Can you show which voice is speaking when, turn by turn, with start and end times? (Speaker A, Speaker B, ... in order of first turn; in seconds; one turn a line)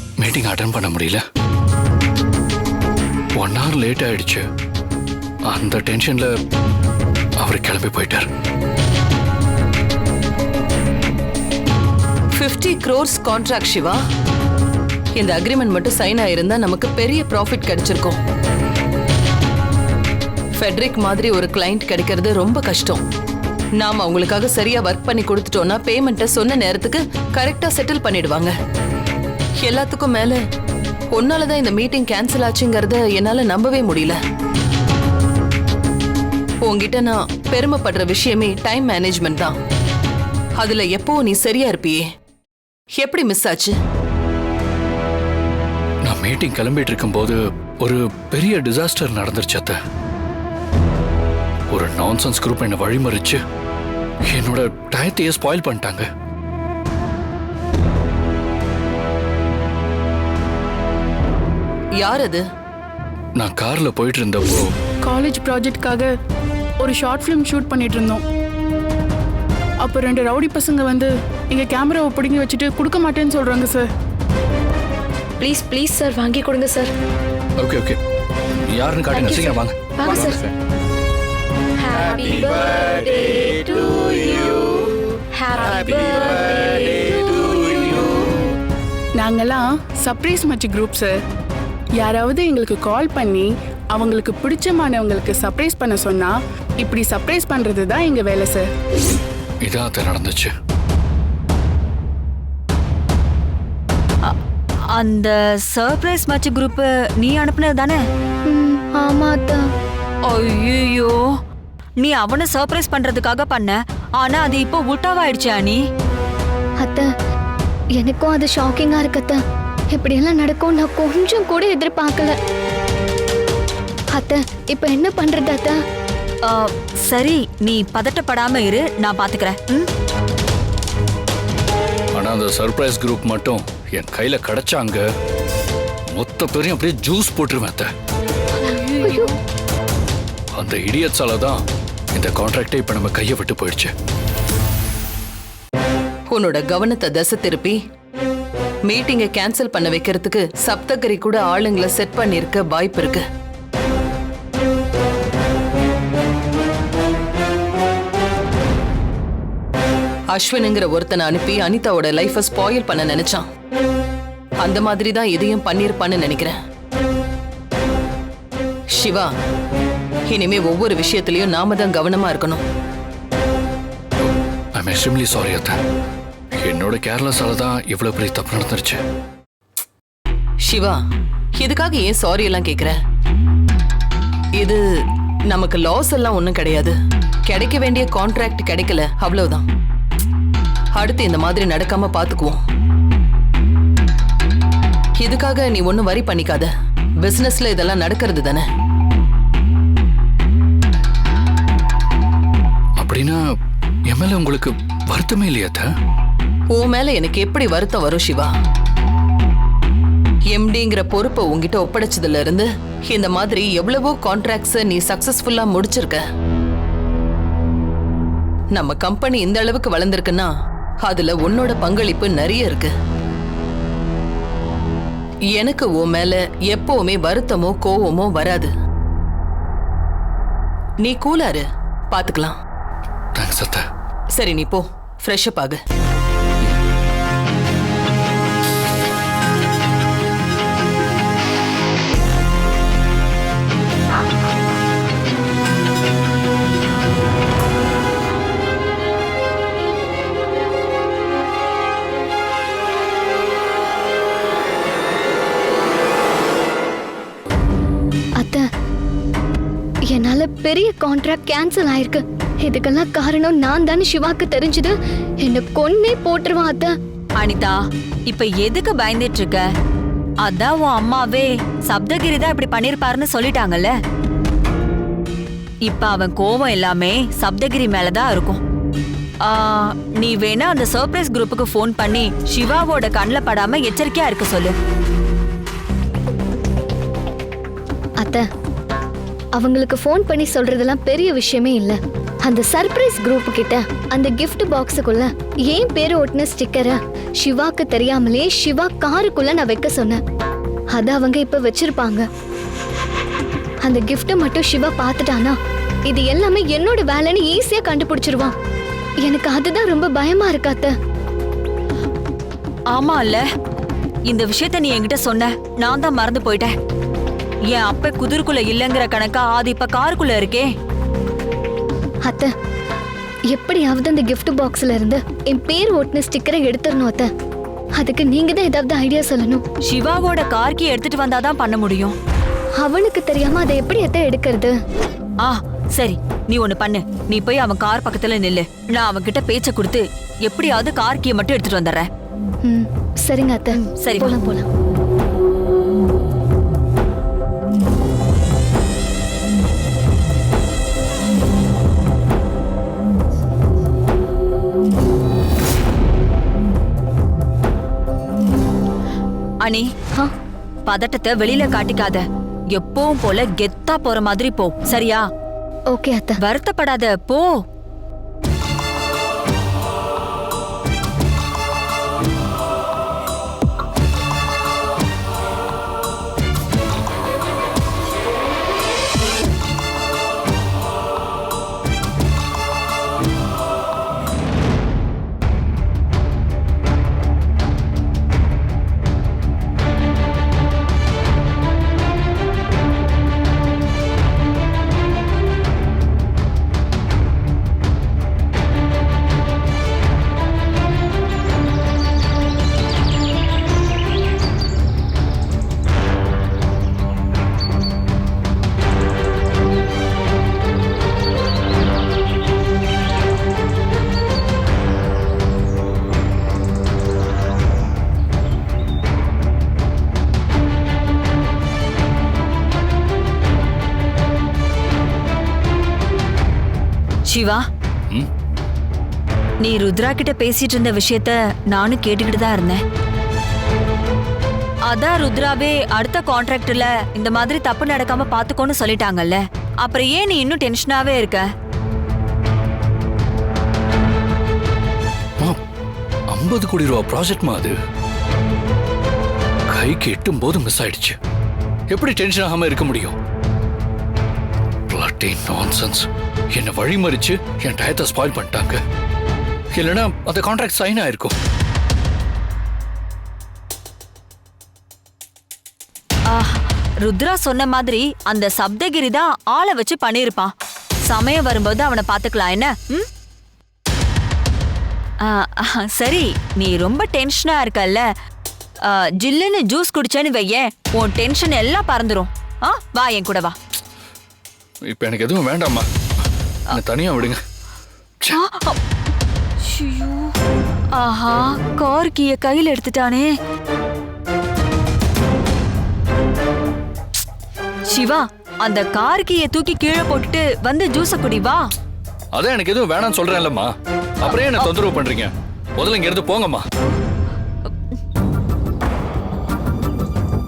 Speaker A: 0.2-1.2
Speaker A: 3.4-4.4
Speaker A: 5.5-6.3
Speaker A: 7.4-8.3
Speaker B: 12.3-14.0
Speaker B: 15.2-18.2
Speaker B: 20.6-23.0
Speaker B: 23.8-28.5
Speaker B: 29.6-30.4
Speaker B: 31.1-34.2
Speaker B: 36.6-39.6
Speaker B: 40.6-42.0
Speaker B: 43.0-43.7
Speaker A: 46.0-49.8
Speaker A: 51.7-53.4
Speaker A: 54.3-56.1
Speaker B: 62.0-62.4
Speaker A: 63.4-64.7
Speaker C: 65.0-66.1
Speaker C: 66.8-68.2
Speaker C: 69.8-73.9
Speaker D: 75.4-76.9
Speaker A: 77.6-78.0
Speaker A: 78.7-79.8
Speaker D: 79.1-80.4
Speaker D: 81.8-88.4
Speaker C: 89.2-91.2
Speaker C: 92.0-98.7
Speaker A: 99.6-100.5
Speaker E: 104.9-108.0
Speaker F: 108.5-109.6
Speaker E: 110.2-111.2
Speaker E: 112.0-115.8
Speaker F: 116.8-117.1
Speaker F: 118.0-119.4
Speaker F: 119.9-122.3
Speaker F: 124.1-125.8
Speaker E: 126.4-129.9
Speaker A: 132.1-135.1
Speaker A: 136.1-137.9
Speaker D: 138.7-139.3
Speaker A: 140.5-141.6
Speaker A: 142.1-143.9
Speaker B: 146.3-147.8
Speaker B: 148.9-153.2
Speaker B: 160.3-163.5
Speaker B: 164.6-166.6
Speaker B: 168.9-169.3
Speaker B: 170.3-172.6
Speaker A: 174.8-175.8
Speaker A: 176.6-179.0
Speaker B: 180.6-181.0
Speaker B: 181.6-182.9
Speaker B: 184.6-184.8
Speaker B: 185.5-186.9
Speaker B: 187.5-189.6
Speaker B: 190.9-192.6
Speaker B: 195.2-196.7
Speaker B: 197.2-198.6
Speaker A: 203.0-203.4
Speaker A: 204.1-205.8
Speaker B: 206.7-208.5
Speaker B: 210.5-216.2
Speaker B: 218.7-222.9
Speaker B: 225.5-228.7
Speaker B: 231.0-232.6
Speaker A: 233.3-233.8
Speaker B: 234.3-235.8
Speaker F: 258.4-258.6
Speaker F: 260.1-266.9
Speaker E: 267.4-267.8
Speaker E: 268.3-269.6
Speaker E: 270.4-273.9
Speaker E: 275.9-278.6
Speaker E: 279.4-284.7
Speaker F: 288.2-288.4
Speaker F: 289.6-300.2
Speaker F: 300.9-302.2
Speaker F: 303.8-305.6
Speaker F: 306.1-308.5
Speaker F: 309.2-310.9
Speaker E: 312.9-313.5
Speaker E: 314.3-316.7
Speaker E: 317.7-320.7
Speaker F: 322.2-322.5
Speaker F: 323.5-327.3
Speaker F: 328.0-329.6
Speaker E: 329.9-332.1
Speaker F: 332.8-334.8
Speaker E: 335.4-342.1
Speaker F: 342.6-344.7
Speaker E: 344.0-344.4
Speaker E: 360.9-365.2
Speaker F: 365.9-366.4
Speaker E: 366.4-367.5
Speaker E: 427.3-427.6
Speaker E: 429.6-432.8
Speaker E: 434.9-441.5
Speaker A: 446.3-447.8
Speaker A: 449.7-451.2
Speaker A: 451.9-453.2
Speaker A: 454.9-458.8
Speaker A: 459.7-461.4
Speaker E: 466.3-470.5
Speaker E: 471.1-473.1
Speaker E: 475.2-478.0
Speaker E: 478.8-483.6
Speaker A: 484.9-485.9
Speaker A: 486.7-487.4
Speaker E: 488.3-488.8
Speaker E: 489.6-490.3
Speaker E: 490.9-493.3
Speaker E: 497.9-501.6
Speaker A: 502.3-506.6
Speaker E: 504.2-504.7